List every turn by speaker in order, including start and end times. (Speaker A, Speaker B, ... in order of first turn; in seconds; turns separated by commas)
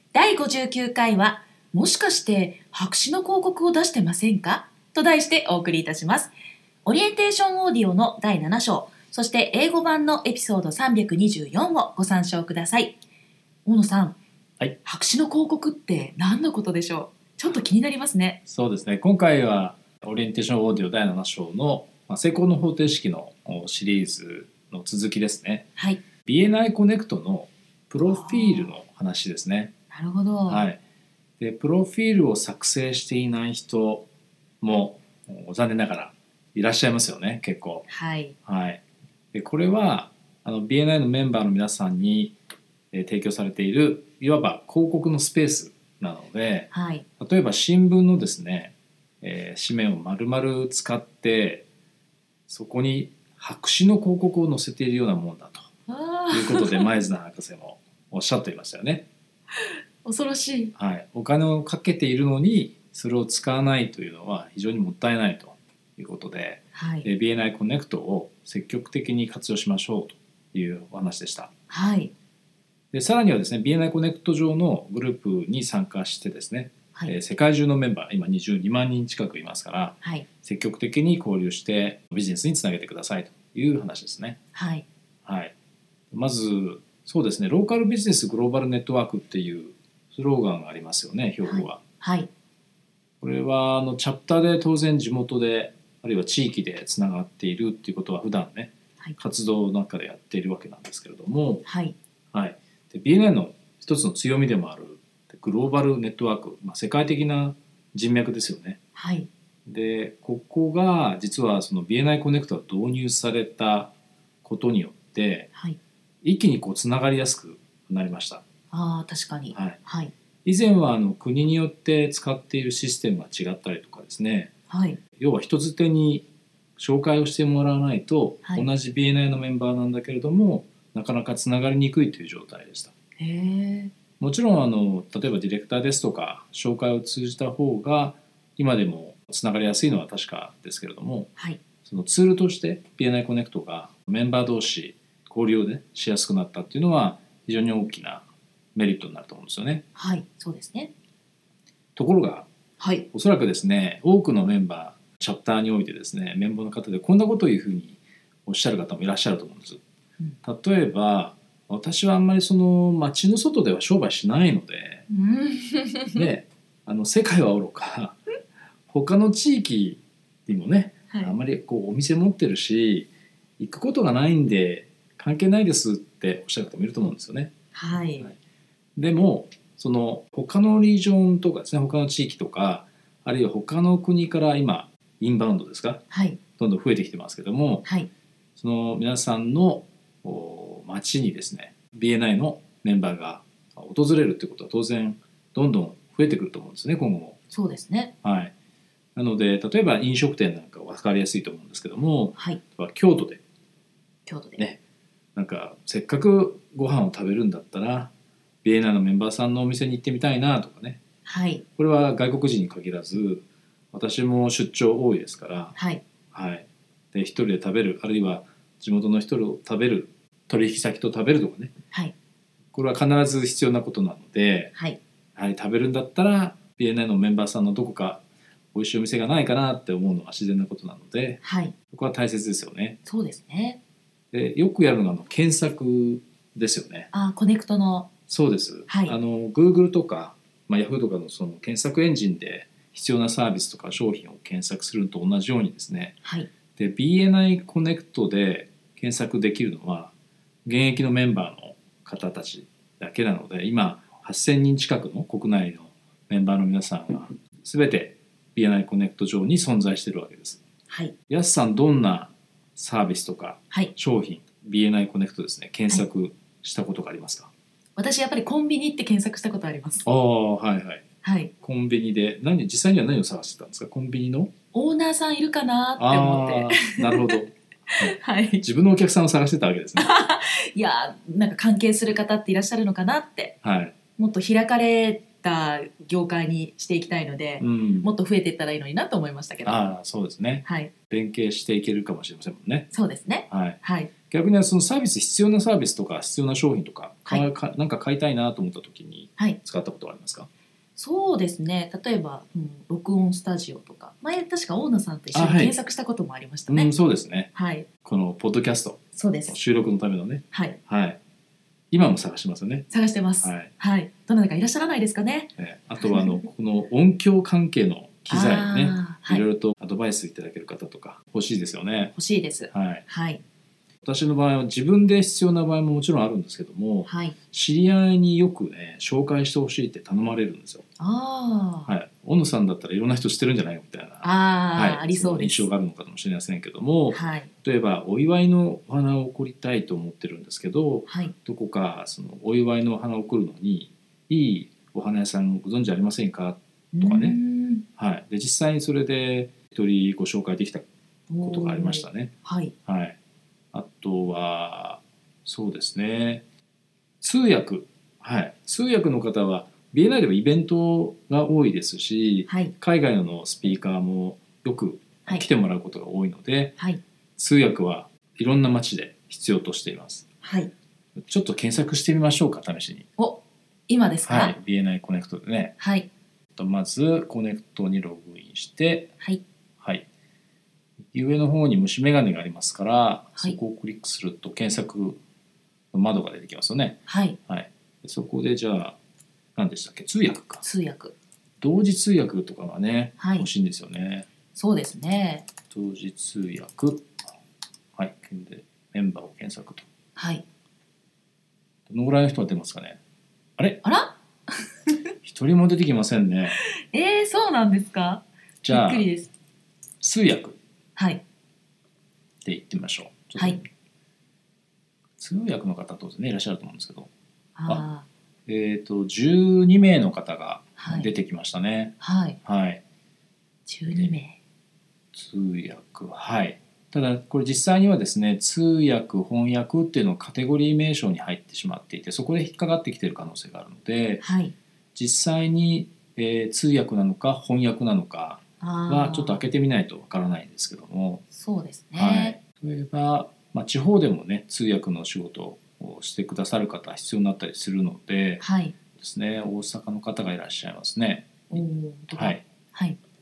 Speaker A: 0.1-6.3, Speaker A: 6.8-13.0, Speaker A: 13.7-14.2, Speaker A: 14.8-18.4, Speaker B: 18.4-25.7, Speaker A: 25.8-26.0, Speaker B: 26.2-29.7, Speaker A: 28.0-28.8, Speaker A: 29.9-30.6, Speaker B: 30.5-30.8, Speaker B: 31.4-34.1, Speaker B: 34.6-37.9, Speaker A: 37.9-38.4, Speaker B: 38.4-38.8, Speaker B: 39.3-42.4, Speaker B: 42.9-51.6, Speaker A: 46.7-47.0, Speaker B: 52.5-55.7, Speaker A: 55.9-56.9, Speaker B: 56.3-59.1, Speaker A: 60.0-60.7, Speaker B: 60.8-71.5, Speaker A: 66.7-67.1, Speaker A: 71.7-72.1, Speaker B: 72.9-84.4, Speaker A: 84.5-84.8, Speaker B: 85.2-85.5, Speaker B: 86.1-91.8, Speaker A: 91.4-92.3, Speaker B: 93.2-101.6, Speaker A: 101.6-102.0, Speaker B: 102.3-108.8, Speaker A: 109.0-109.3, Speaker B: 109.7-113.9, Speaker B: 114.4-115.5, Speaker B: 116.2-118.4, Speaker A: 118.7-120.1, Speaker B: 119.5-119.8, Speaker B: 120.4-124.5, Speaker A: 124.7-125.0, Speaker B: 125.2-132.9, Speaker A: 133.2-133.9, Speaker B: 134.2-141.3, Speaker B: 141.8-149.8, Speaker A: 149.9-150.9, Speaker B: 151.9-152.5, Speaker A: 152.8-153.1, Speaker B: 153.1-159.8, Speaker B: 160.4-165.1, Speaker A: 165.1-166.3, Speaker B: 166.1-168.2, Speaker B: 168.9-173.1, Speaker B: 173.6-177.5, Speaker A: 177.7-178.3, Speaker B: 178.9-186.0, Speaker A: 186.1-186.4, Speaker B: 186.6-187.8, Speaker B: 188.6-197.4, Speaker A: 197.5-198.1, Speaker B: 198.2-198.5, Speaker B: 199.2-203.4, Speaker A: 204.2-204.6, Speaker B: 205.3-208.1, Speaker B: 208.6-211.0, Speaker A: 211.2-211.6, Speaker B: 211.8-215.8, Speaker A: 215.8-216.0, Speaker B: 216.3-221.7, Speaker B: 222.7-224.7, Speaker A: 224.7-225.0, Speaker B: 225.3-228.2, Speaker B: 228.7-233.0, Speaker A: 231.4-231.8, Speaker A: 233.1-233.8, Speaker B: 234.3-237.1, Speaker A: 237.1-238.1, Speaker B: 238.3-246.2, Speaker A: 238.9-239.2, Speaker A: 246.2-246.5, Speaker B: 246.7-250.1, Speaker B: 250.6-260.6, Speaker A: 260.9-261.1, Speaker B: 261.3-267.5, Speaker A: 268.0-270.1, Speaker B: 270.0-271.0, Speaker A: 271.2-271.5, Speaker B: 271.6-274.5, Speaker A: 274.7-277.4, Speaker B: 276.0-280.1, Speaker A: 278.0-278.6, Speaker A: 279.9-283.6, Speaker B: 283.6-283.9, Speaker A: 284.2-289.8, Speaker B: 287.6-288.1, Speaker B: 289.6-292.9, Speaker A: 290.6-290.9, Speaker A: 292.9-294.1, Speaker B: 293.5-300.5, Speaker A: 301.0-306.9, Speaker B: 305.3-305.7, Speaker B: 306.7-307.5, Speaker A: 307.5-307.9, Speaker B: 308.0-311.2, Speaker A: 309.1-309.6, Speaker A: 310.5-310.8, Speaker B: 311.9-312.9, Speaker A: 312.9-315.5, Speaker B: 313.4-313.7, Speaker B: 315.6-322.1, Speaker A: 316.0-316.3, Speaker A: 318.3-319.4, Speaker A: 322.1-323.4, Speaker B: 322.7-323.0, Speaker B: 324.0-330.8, Speaker A: 327.1-327.4, Speaker A: 331.0-331.9, Speaker B: 331.9-347.4, Speaker A: 334.2-335.7, Speaker A: 337.1-337.5, Speaker A: 341.1-341.3, Speaker A: 346.9-347.8, Speaker B: 347.9-350.9, Speaker A: 351.3-352.7, Speaker B: 351.4-352.3, Speaker B: 352.9-353.2, Speaker B: 353.7-356.4, Speaker B: 357.2-366.8, Speaker A: 362.5-362.7, Speaker B: 367.4-370.2, Speaker A: 370.4-370.7, Speaker B: 371.2-373.1, Speaker A: 373.2-374.6, Speaker B: 374.2-375.8, Speaker A: 375.8-376.1, Speaker B: 376.6-379.1, Speaker B: 379.8-380.1, Speaker B: 381.1-385.2, Speaker B: 385.9-389.0, Speaker A: 387.1-387.4, Speaker B: 389.5-390.6, Speaker A: 390.6-391.1, Speaker B: 391.6-394.3, Speaker A: 393.2-393.5, Speaker A: 394.5-395.5, Speaker B: 395.7-397.1, Speaker B: 397.9-399.9, Speaker A: 400.1-400.4, Speaker B: 401.9-403.0, Speaker B: 403.6-403.8, Speaker A: 403.8-404.2, Speaker B: 405.2-406.6, Speaker A: 406.5-409.3, Speaker B: 408.6-409.1, Speaker B: 410.0-410.6, Speaker A: 411.0-411.2, Speaker B: 412.4-413.7, Speaker B: 415.2-417.1, Speaker A: 417.6-418.1, Speaker B: 418.5-422.8, Speaker A: 420.8-421.1, Speaker A: 422.0-422.4, Speaker A: 423.6-424.4, Speaker B: 423.9-424.2, Speaker B: 425.1-434.2, Speaker A: 434.2-434.5, Speaker B: 434.9-441.2, Speaker A: 438.6-439.4, Speaker A: 441.3-442.4, Speaker B: 441.9-448.4, Speaker A: 448.4-448.8, Speaker B: 448.9-452.4, Speaker A: 451.5-453.0